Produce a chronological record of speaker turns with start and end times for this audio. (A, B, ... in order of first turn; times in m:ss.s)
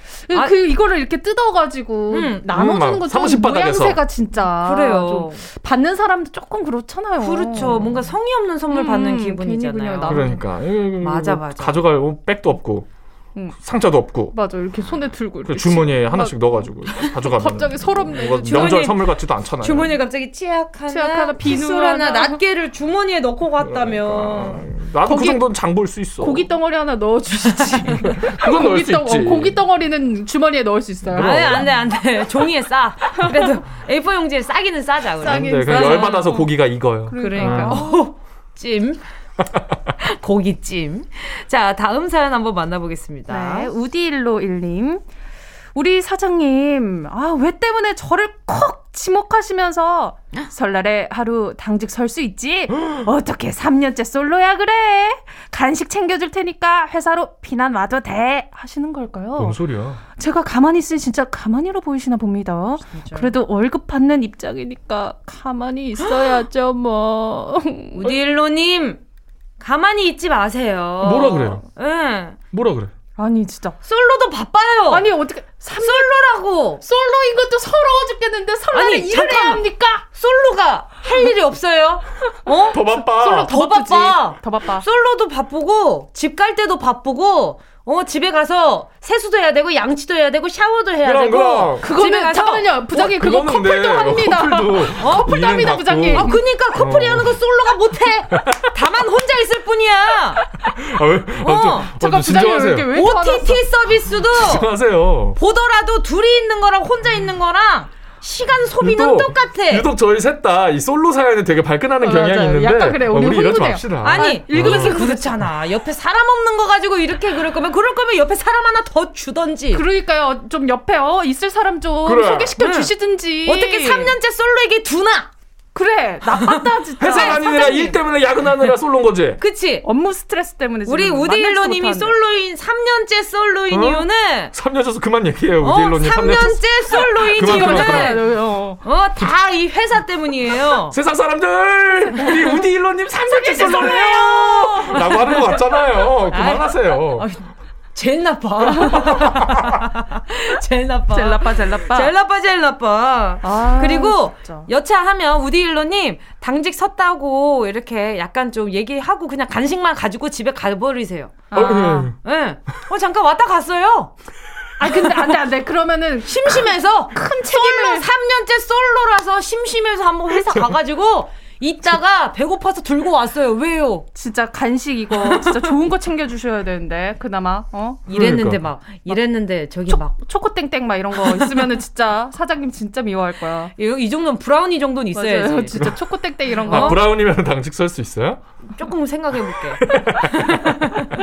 0:00.2-0:08.1 A
0:02.1-0:02.5 B
0:02.5-0:04.0 C
0:04.6-0:05.4 B
0:07.2-0:10.3 B
0:08.7-0:10.4 A
0:10.0-0:12.9 C
0:11.0-0:11.8 B
0:13.5-0:19.9 C
0:14.3-0:18.9 A
0:18.4-0:24.7 B
0:20.9-0:22.4 A
0:23.6-0:26.5 C
0:25.0-0:31.7 A
0:28.1-0:29.6 C
0:31.1-0:31.6 C
0:31.1-0:36.4 B
0:33.1-0:33.6 A
0:35.2-0:38.1 A
0:35.2-0:37.8 C
0:37.1-0:39.0 B
0:40.0-0:43.7 B
0:43.3-0:45.0 A
0:45.7-0:59.6 A
0:59.4-1:00.0 C
1:00.2-1:08.0 A
1:02.9-1:03.3 B
1:07.9-1:09.0 B
1:09.6-1:12.4 B
1:11.0-1:11.6 C
1:12.5-1:12.9 C
1:13.2-1:13.8 A
1:13.8-1:15.1 B
1:14.9-1:16.2 A
1:15.8-1:16.8 B
1:16.8-1:20.0 A
1:18.7-1:32.7 B
1:22.7-1:23.5 C
1:22.7-1:24.8 A
1:31.0-1:31.8 C
1:31.8-1:36.4 A
1:32.9-1:37.4 C
1:35.0-1:35.3 B
1:36.1-1:40.5 B
1:38.3-1:38.7 C
1:40.8-1:43.0 C
1:41.4-1:41.9 B
1:41.9-1:43.7 A
1:42.9-1:44.7 B
1:44.3-1:45.4 C
1:45.3-1:49.9 B
1:48.8-1:55.1 C
1:52.0-1:55.4 A
1:54.0-1:59.8 B
1:59.7-2:04.1 A
2:02.0-2:02.5 C
2:02.6-2:05.3 B
2:05.7-2:08.0 A
2:06.2-2:07.9 B
2:07.0-2:09.4 C
2:09.4-2:09.8 B
2:09.8-2:12.2 A
2:10.8-2:14.5 B
2:13.7-2:18.2 C
2:15.6-2:18.3 B
2:17.2-2:18.8 A
2:18.8-2:21.0 B
2:20.9-2:27.3 C
2:23.2-2:25.6 A
2:23.6-2:25.6 B
2:26.3-2:44.1 B
2:28.7-2:29.0 A
2:31.1-2:32.1 A
2:33.4-2:34.7 A
2:41.5-2:42.1 A
2:41.5-2:42.1 C
2:44.8-2:48.1 A
2:46.2-2:54.1 B
2:54.1-2:58.1 A
2:55.2-2:55.5 B
2:58.1-3:00.2 B
2:58.1-2:58.6 C
2:59.9-3:03.7 A
3:03.7-3:05.8 B
3:05.1-3:07.1 A
3:06.6-3:07.0 B
3:06.7-3:08.4 C
3:08.8-3:11.1 B
3:09.8-3:10.3 C